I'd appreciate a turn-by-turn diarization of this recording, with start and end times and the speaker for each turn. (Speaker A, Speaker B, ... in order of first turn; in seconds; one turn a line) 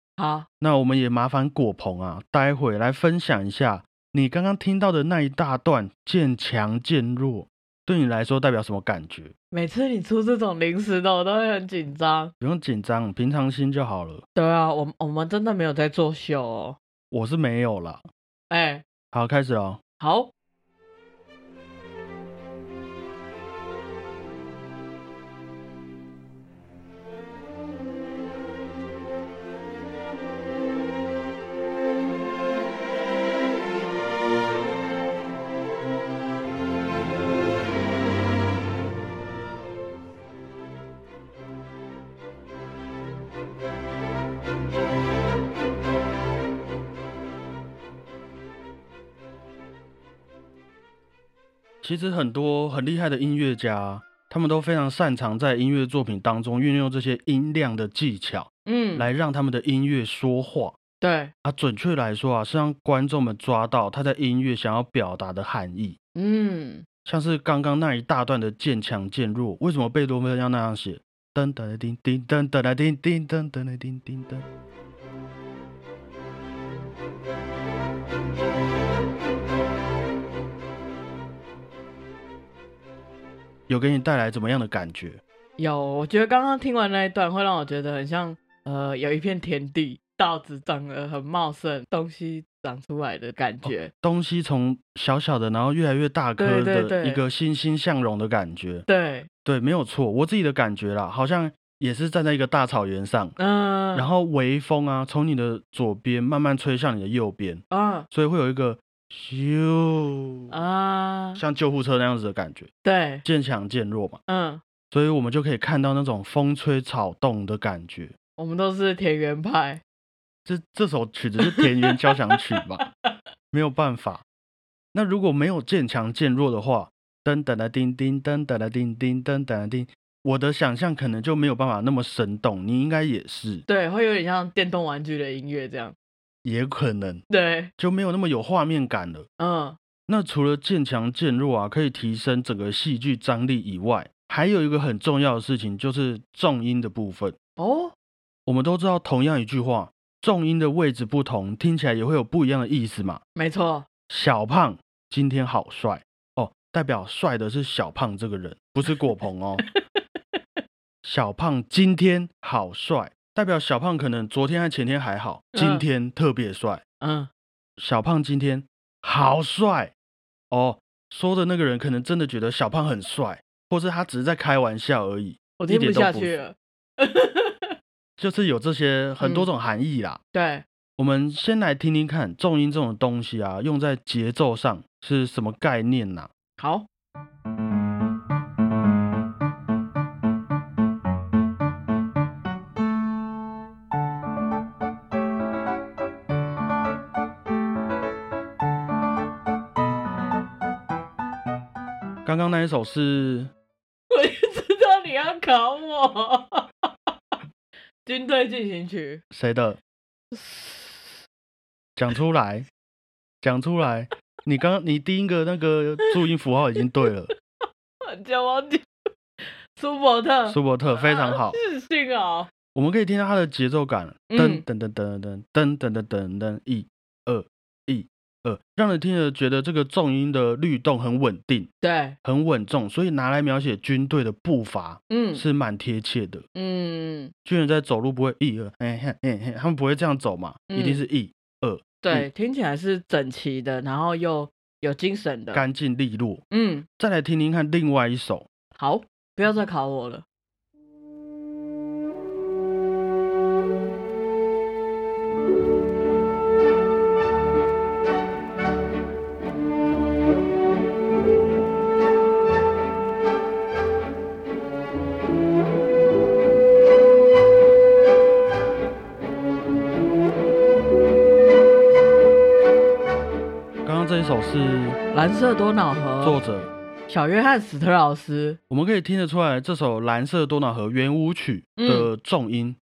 Speaker A: 0.2-0.5
Speaker B: 0.6-9.3
Speaker A: 9.5-12.3
Speaker B: 12.4-14.2
Speaker A: 14.3-16.8
Speaker B: 17.1-18.1
Speaker A: 18.5-18.9
Speaker B: 19.1-19.8
Speaker A: 20.0-20.3
Speaker B: 51.8-60.8
Speaker A: 58.7-59.1
Speaker A: 61.0-61.3
Speaker B: 61.4-66.0
Speaker A: 66.2-66.8
Speaker B: 67.1-74.5
Speaker B: 83.7-85.2
Speaker A: 85.6-93.9
Speaker B: 93.6-98.8
Speaker A: 96.4-97.2
Speaker A: 98.9-99.3
Speaker B: 99.5-103.4
Speaker A: 103.4-104.1
Speaker B: 103.9-110.5
Speaker A: 107.7-108.1
Speaker A: 110.5-111.4
Speaker B: 111.4-112.7
Speaker A: 112.8-113.2
Speaker B: 113.2-114.2
Speaker A: 114.3-114.6
Speaker B: 114.9-118.1
Speaker A: 118.4-119.8
Speaker B: 120.5-122.9
Speaker A: 121.5-122.9
Speaker B: 123.5-124.2
Speaker B: 124.9-133.7
Speaker A: 133.7-135.9
Speaker B: 136.4-137.2
Speaker A: 137.3-137.7
Speaker B: 137.8-139.3
Speaker A: 139.4-139.8
Speaker B: 140.1-147.4
Speaker A: 147.6-147.9
Speaker B: 148.5-153.2
Speaker A: 153.3-153.9
Speaker B: 154.1-159.6
Speaker B: 161.0-166.8
Speaker A: 165.5-165.8
Speaker A: 167.0-167.3
Speaker B: 167.8-169.9
Speaker B: 170.5-176.4
Speaker A: 175.6-177.7
Speaker B: 178.2-180.2
Speaker A: 179.2-179.5
Speaker A: 180.3-180.6
Speaker B: 181.0-186.3
Speaker A: 186.6-186.9
Speaker B: 202.2-203.5
Speaker A: 204.1-206.7
Speaker A: 208.1-209.2
Speaker B: 209.3-209.8
Speaker A: 210.3-211.2
Speaker B: 212.0-212.7
Speaker B: 213.4-217.3
Speaker A: 218.1-218.9
Speaker A: 219.7-222.5
Speaker B: 220.5-221.6
Speaker B: 222.8-231.7
Speaker A: 224.3-224.7
Speaker A: 231.8-232.2
Speaker B: 232.2-236.4
Speaker A: 235.1-235.4
Speaker A: 236.6-237.3
Speaker B: 237.4-242.3
Speaker A: 240.7-241.0
Speaker A: 242.0-245.6
Speaker B: 245.5-246.4
Speaker A: 246.5-246.9
Speaker B: 247.0-248.5
Speaker A: 248.8-250.2
Speaker B: 273.9-275.0
Speaker A: 275.1-276.4
Speaker B: 276.2-276.7
Speaker A: 277.1-278.6
Speaker B: 278.7-282.8
Speaker A: 281.8-282.1